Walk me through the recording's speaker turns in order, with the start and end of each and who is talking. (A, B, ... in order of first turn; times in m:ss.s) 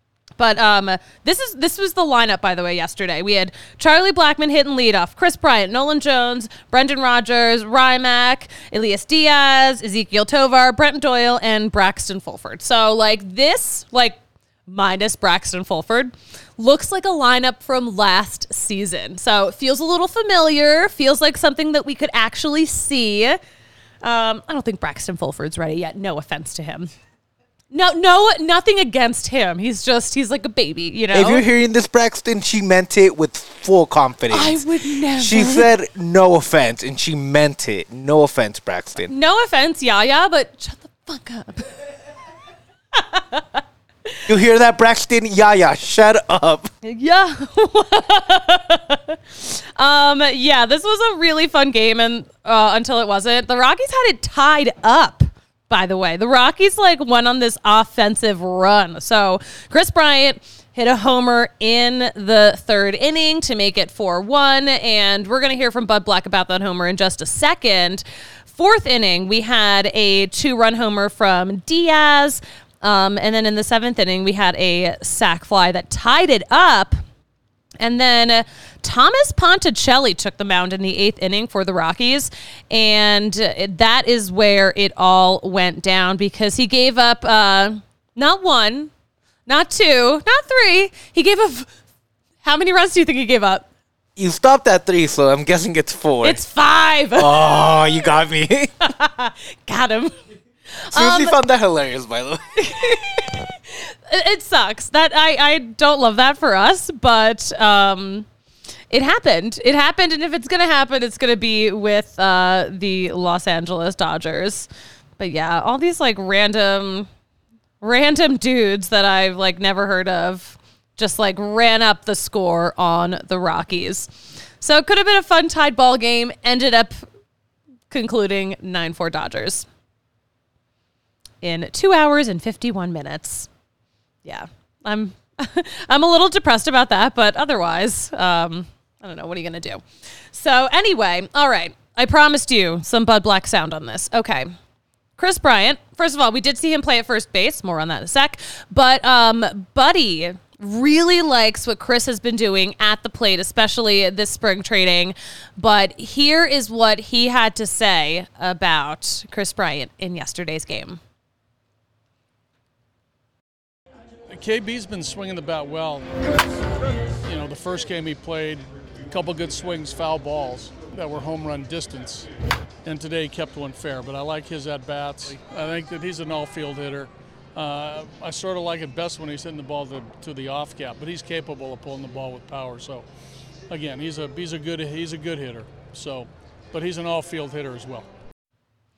0:00.4-0:23.4 A
0:24.0-0:26.9 A
0:27.7-0:31.4 A
0:31.1-0:39.1 B
0:34.3-0:35.7 A
0:39.0-0:41.9 A
0:42.9-0:44.2 A
0:44.3-0:46.7 B
0:46.8-1:17.0 A
1:17.8-1:28.9 A
1:29.5-1:31.7 A
1:32.4-1:33.6 A
1:34.2-1:36.4 B
1:36.2-1:38.1 A
1:37.2-1:38.8 B
1:38.8-1:40.1 A
1:40.8-1:41.4 A
1:40.9-1:43.3 B
1:42.6-1:48.3 A
1:48.9-1:54.7 A
1:55.2-1:57.1 A
1:57.8-2:04.1 A
2:04.6-2:07.0 A
2:07.9-2:09.6 A
2:11.4-2:13.5 A
2:14.2-2:24.5 A
2:25.2-2:41.0 A
2:44.3-2:46.1 C
2:47.2-2:52.3 C
2:52.8-3:03.0 C
3:03.7-3:08.1 C